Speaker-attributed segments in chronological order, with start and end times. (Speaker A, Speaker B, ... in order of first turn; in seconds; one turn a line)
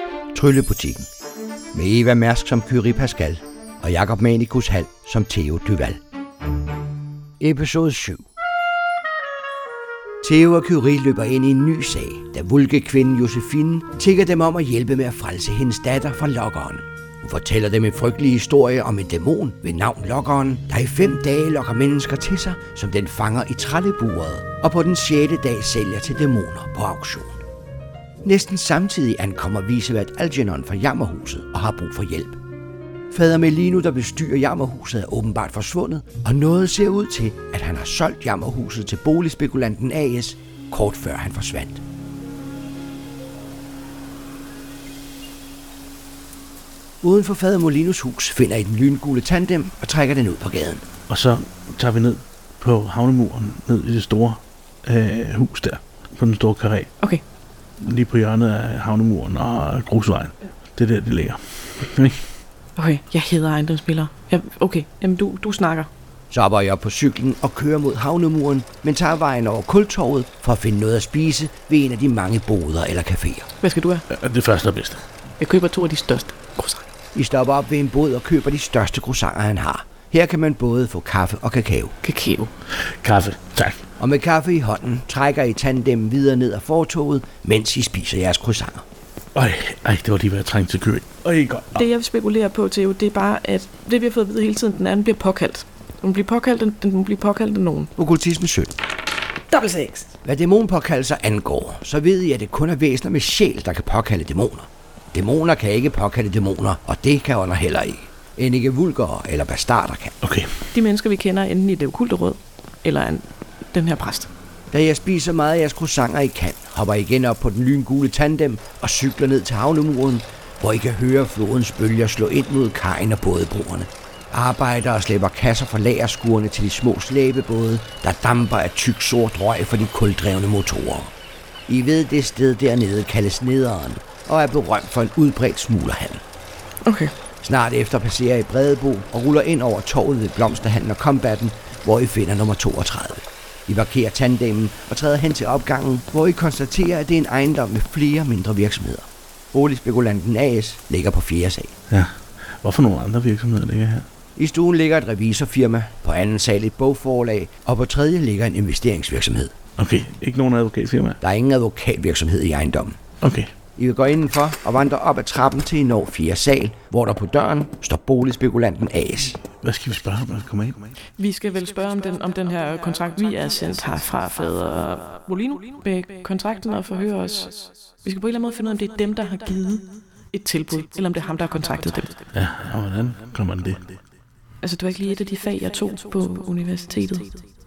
Speaker A: 0.3-1.1
Speaker A: 1.7-6.0
Speaker A: 7.4-8.2
Speaker A: 10.2-27.4
Speaker A: 28.2-32.4
Speaker A: 33.1-41.8
Speaker A: 47.0-50.8
Speaker B: 51.1-56.9
Speaker B: 57.8-62.2
Speaker C: 62.8-65.9
Speaker A: 66.3-73.5
Speaker C: 73.6-74.0
Speaker B: 74.1-75.0
Speaker C: 75.4-76.9
Speaker A: 77.1-81.9
Speaker C: 82.0-82.5
Speaker B: 82.7-83.8
Speaker A: 84.0-88.8
Speaker B: 89.3-91.8
Speaker C: 91.7-97.9
Speaker A: 98.0-98.7
Speaker C: 99.5-100.1
Speaker A: 100.2-110.2
Speaker B: 110.2-110.6
Speaker C: 110.7-114.3
Speaker A: 114.7-131.1
Speaker A: 131.7-136.2
Speaker C: 136.8-137.1
Speaker A: 137.4-151.7
Speaker B: 151.9-154.1
Speaker A: 154.3-159.5
Speaker B: 159.8-161.2
Speaker A: 161.2-163.0
Speaker B: 163.2-163.5
Speaker A: 163.8-169.4
Speaker B: 169.4-170.9
Speaker C: 171.2-182.2
Speaker B: 182.3-184.0
Speaker C: 184.6-187.4